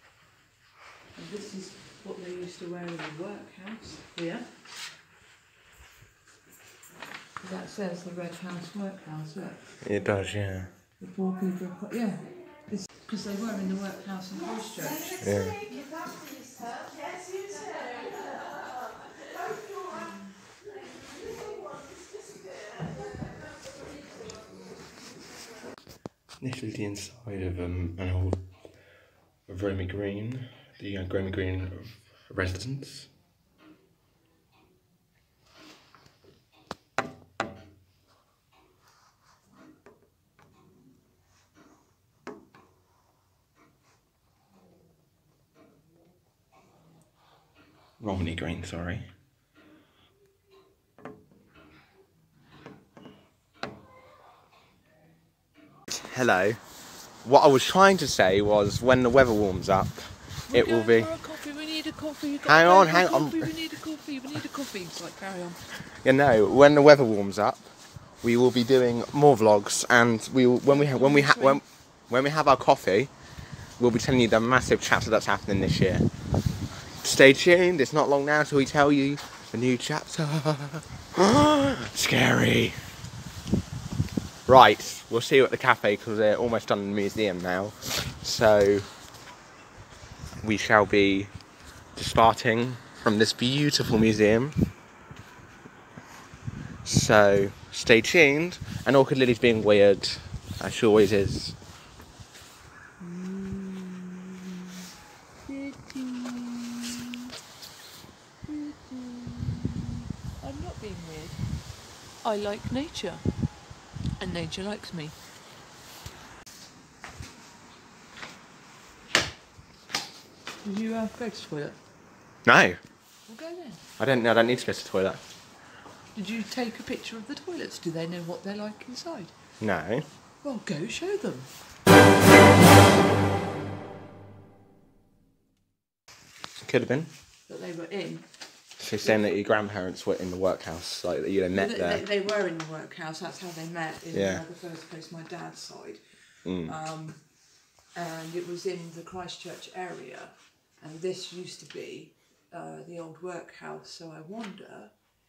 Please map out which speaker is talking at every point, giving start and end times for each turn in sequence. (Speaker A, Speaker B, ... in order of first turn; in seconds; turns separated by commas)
Speaker A: 1.1-4.5, Speaker A: 7.4-9.8, Speaker B: 9.8-10.8, Speaker A: 11.0-15.2, Speaker B: 15.2-15.7, Speaker A: 16.3-17.5, Speaker B: 26.4-28.9, Speaker B: 29.4-33.1, Speaker B: 48.0-49.1, Speaker B: 55.9-56.6, Speaker B: 57.2-61.1, Speaker A: 60.5-65.6, Speaker B: 62.4-63.5, Speaker B: 65.9-73.1, Speaker A: 70.7-71.6, Speaker B: 73.8-76.1, Speaker B: 77.0-82.9, Speaker B: 84.5-88.9, Speaker B: 90.4-91.3, Speaker B: 91.9-94.6, Speaker B: 96.8-101.6, Speaker A: 103.0-104.7, Speaker A: 105.5-107.2, Speaker A: 108.4-111.4, Speaker A: 112.2-113.3, Speaker A: 114.2-115.2, Speaker A: 120.6-121.8, Speaker B: 122.4-122.8, Speaker A: 123.3-123.8, Speaker B: 124.0-125.2, Speaker A: 126.1-129.3, Speaker B: 129.6-130.1, Speaker A: 130.4-131.5, Speaker B: 136.6-137.1, Speaker A: 137.5-138.3, Speaker B: 138.8-142.0, Speaker A: 141.5-155.0, Speaker B: 144.1-144.4, Speaker B: 146.4-146.7